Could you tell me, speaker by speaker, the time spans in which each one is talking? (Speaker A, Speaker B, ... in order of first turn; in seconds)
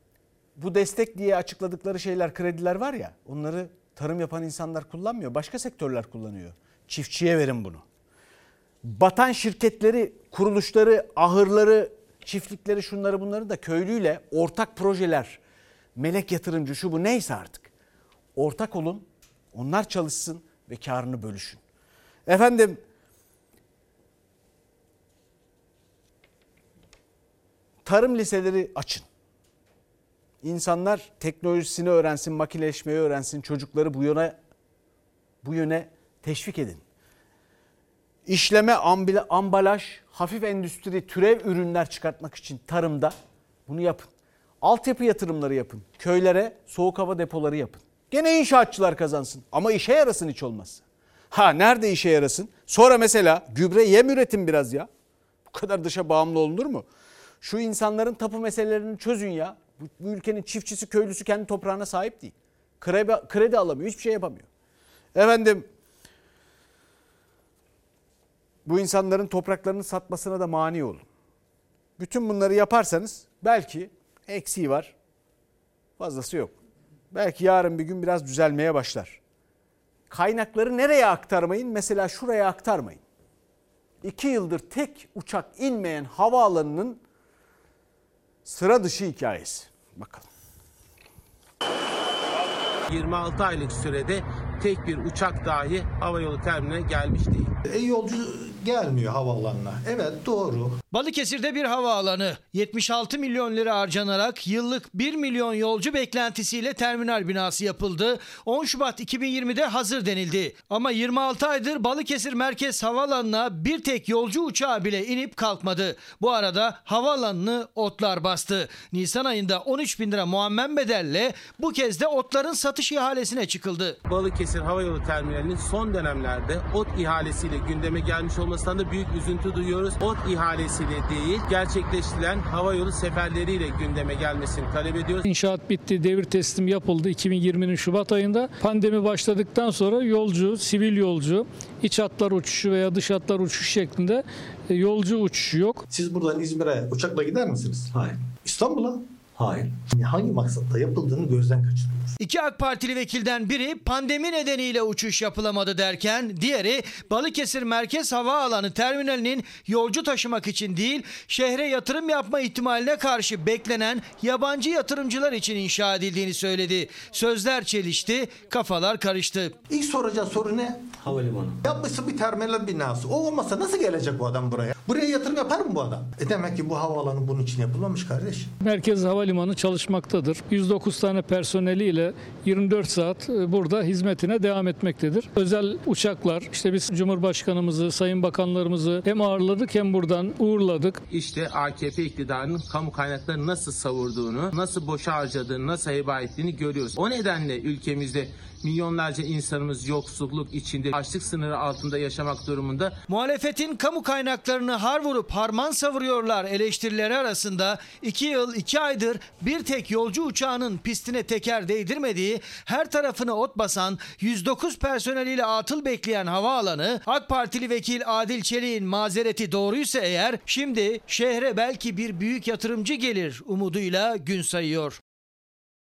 Speaker A: 0.6-7.8, 8.8-15.4, 16.0-17.7, 18.4-21.6, 22.3-22.8, 27.9-29.1, 30.4-34.4, 35.4-36.8, 38.3-43.1, 43.7-44.1, 44.6-54.9, 55.5-56.9, 57.4-64.5, 65.2-65.7, 68.7-71.0, 72.0-74.9, 76.0-76.6, 77.1-79.2, 80.1-83.0, 84.0-87.0, 88.5-90.3
Speaker B: 92.9-97.5, 124.1-135.3, 191.1-203.0
Speaker C: 97.7-100.8, 145.9-152.2, 169.7-178.5
Speaker D: 100.9-124.0, 152.2-169.6, 203.1-225.0
Speaker E: 135.3-145.8, 178.6-191.0